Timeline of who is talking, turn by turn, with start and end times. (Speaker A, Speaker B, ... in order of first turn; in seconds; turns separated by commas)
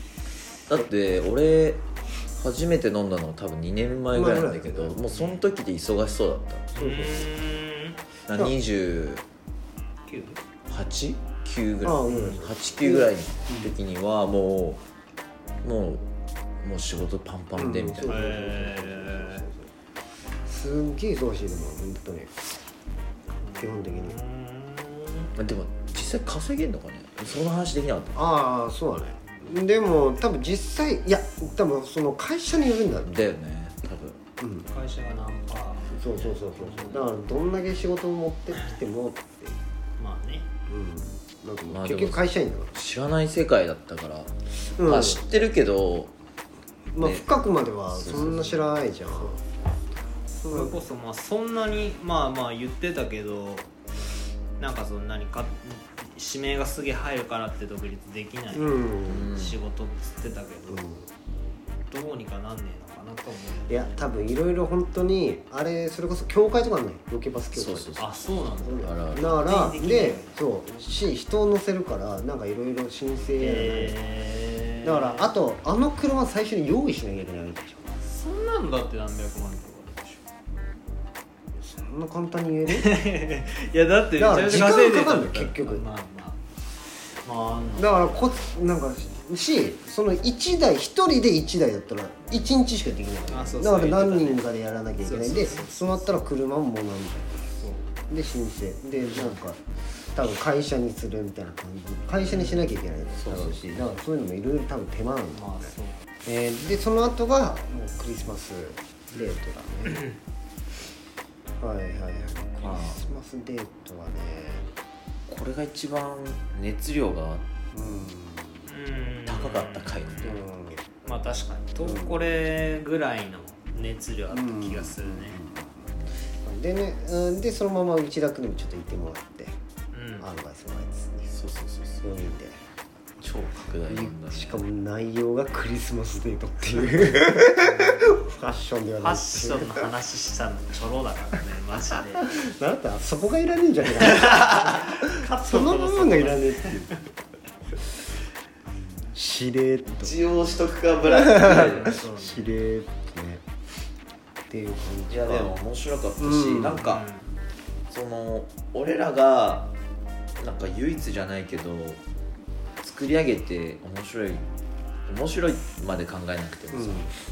Speaker A: 0.7-1.8, Speaker A: 2.4-6.7, Speaker B: 4.1-5.0, Speaker C: 5.1-5.4, Speaker C: 6.8-8.0, Speaker B: 6.8-7.3, Speaker A: 8.3-9.2, Speaker C: 10.1-10.4, Speaker A: 10.7-14.8, Speaker B: 11.8-13.7, Speaker C: 12.1-12.4, Speaker A: 15.6-16.1, Speaker A: 16.6-18.2, Speaker B: 17.6-19.7, Speaker C: 18.1-19.4, Speaker B: 20.5-22.3, Speaker C: 23.4-25.3, Speaker B: 23.6-24.2, Speaker A: 25.4-28.2, Speaker B: 28.1-33.2, Speaker C: 29.2-29.6, Speaker A: 33.1-34.2, Speaker B: 34.4-34.7, Speaker C: 34.7-37.1, Speaker B: 35.9-39.6, Speaker C: 40.0-40.5, Speaker B: 40.7-42.7, Speaker A: 41.7-46.1, Speaker B: 44.8-45.2, Speaker B: 46.9-49.4, Speaker A: 47.0-47.2, Speaker A: 47.9-48.6, Speaker C: 48.2-48.6, Speaker C: 50.3-53.7, Speaker C: 54.6-60.9, Speaker B: 58.5-59.3, Speaker A: 59.1-59.6, Speaker B: 60.7-61.1, Speaker C: 61.9-63.9, Speaker B: 63.7-67.9, Speaker A: 67.5-68.1, Speaker C: 68.0-70.4, Speaker B: 68.6-74.0, Speaker A: 68.8-69.4, Speaker C: 73.4-75.3, Speaker B: 74.8-78.0, Speaker C: 78.0-80.2, Speaker B: 81.6-82.9, Speaker C: 82.7-86.4, Speaker B: 84.2-85.8, Speaker C: 87.2-88.1, Speaker B: 87.8-97.5, Speaker C: 93.3-94.5, Speaker C: 95.0-96.1, Speaker C: 97.6-97.9, Speaker B: 98.1-99.6, Speaker C: 99.0-99.4, Speaker B: 100.1-105.7, Speaker C: 102.2-102.7, Speaker A: 103.2-103.6, Speaker C: 105.3-106.0, Speaker B: 106.2-110.0, Speaker C: 109.9-110.2, Speaker B: 111.6-114.7, Speaker A: 112.6-113.0, Speaker A: 115.3-117.5, Speaker B: 117.7-118.7, Speaker C: 118.7-120.4, Speaker A: 119.2-120.4, Speaker B: 120.2-120.8, Speaker C: 121.0-125.4, Speaker B: 121.8-122.3, Speaker B: 124.3-125.9, Speaker B: 126.4-129.6, Speaker C: 129.9-130.3, Speaker B: 130.2-131.3, Speaker A: 131.3-132.1, Speaker B: 132.0-132.6, Speaker A: 133.2-134.6, Speaker B: 133.9-139.9, Speaker C: 137.6-138.2, Speaker C: 139.0-142.3, Speaker B: 142.2-147.0, Speaker C: 144.0-147.0, Speaker B: 149.1-150.2, Speaker A: 150.0-152.0, Speaker B: 151.1-153.4, Speaker C: 151.4-152.5, Speaker B: 154.5-155.6, Speaker A: 155.1-157.1, Speaker B: 156.2-156.9, Speaker C: 156.8-157.2, Speaker A: 157.9-159.7, Speaker A: 160.4-162.0, Speaker A: 162.8-164.4, Speaker A: 165.1-167.1, Speaker B: 166.7-167.1